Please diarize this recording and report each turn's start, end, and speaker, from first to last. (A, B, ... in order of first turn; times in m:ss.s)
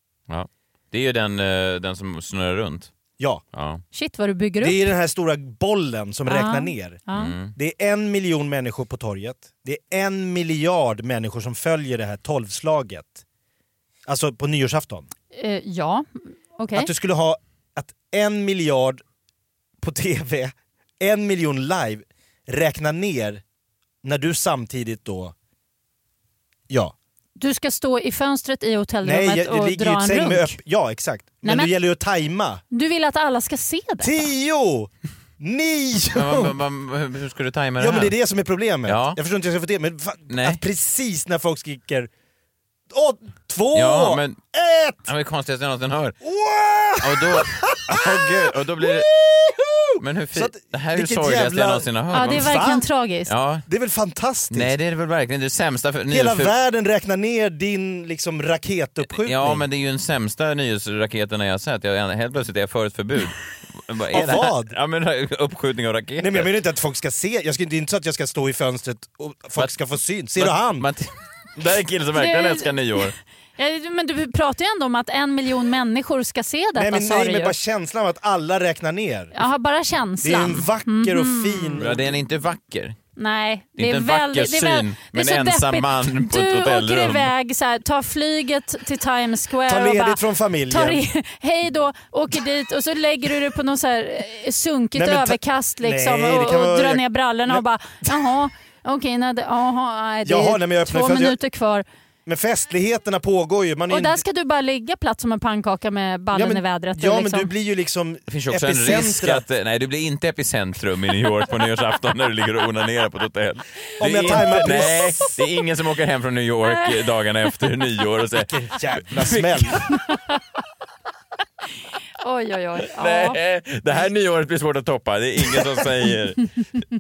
0:00.3-0:02.9 A
0:03.5-0:03.8 A
0:03.9-0:04.9 B
0:04.6-0:07.0 C
0:06.3-0:07.3 B
0:07.1-0:07.5 A
0:07.5-0:13.2 C
0:14.1-0:15.1 C
0:15.3-0:16.9 B
0:16.7-0:19.0 C
0:19.8-0:23.4 C
0:24.0-0:25.4 C
0:26.7-0:27.0 C
0:27.4-0:30.6 B
0:29.0-0:32.6 C
0:31.4-0:31.7 B
0:32.7-0:34.3 B
0:34.0-0:36.5 C
0:36.2-0:38.1 A
0:37.8-0:42.1 C
0:38.9-0:39.2 A
0:40.3-0:40.6 A
0:42.9-0:45.1 C
0:43.7-0:44.4 A
0:45.1-0:46.2 A
0:46.2-0:52.8 C
0:47.0-0:49.1 A
0:50.0-0:52.6 A
0:52.1-0:53.3 B
0:53.3-0:53.6 A
0:53.7-0:54.7 C
0:54.5-0:56.5 A
0:56.1-0:59.6 C
0:59.1-1:06.5 A
1:04.1-1:04.8 C
1:06.2-1:10.9 C
1:10.4-1:13.2 A
1:12.2-1:12.7 B
1:13.6-1:17.6 B
1:16.8-1:19.3 C
1:19.3-1:21.8 B
1:20.2-1:22.2 C
1:21.8-1:23.0 A
1:23.2-1:41.8 B
1:23.8-1:27.3 A
1:29.7-1:31.0 C
1:35.0-1:38.3 C
1:40.2-1:41.4 C
1:42.3-1:44.2 C
1:43.9-1:47.5 B
1:46.3-1:49.4 C
1:48.3-1:59.8 A
1:54.0-1:55.2 C
1:58.4-1:59.8 C
1:59.9-2:00.4 B
2:02.2-2:03.4 B
2:03.0-2:06.5 A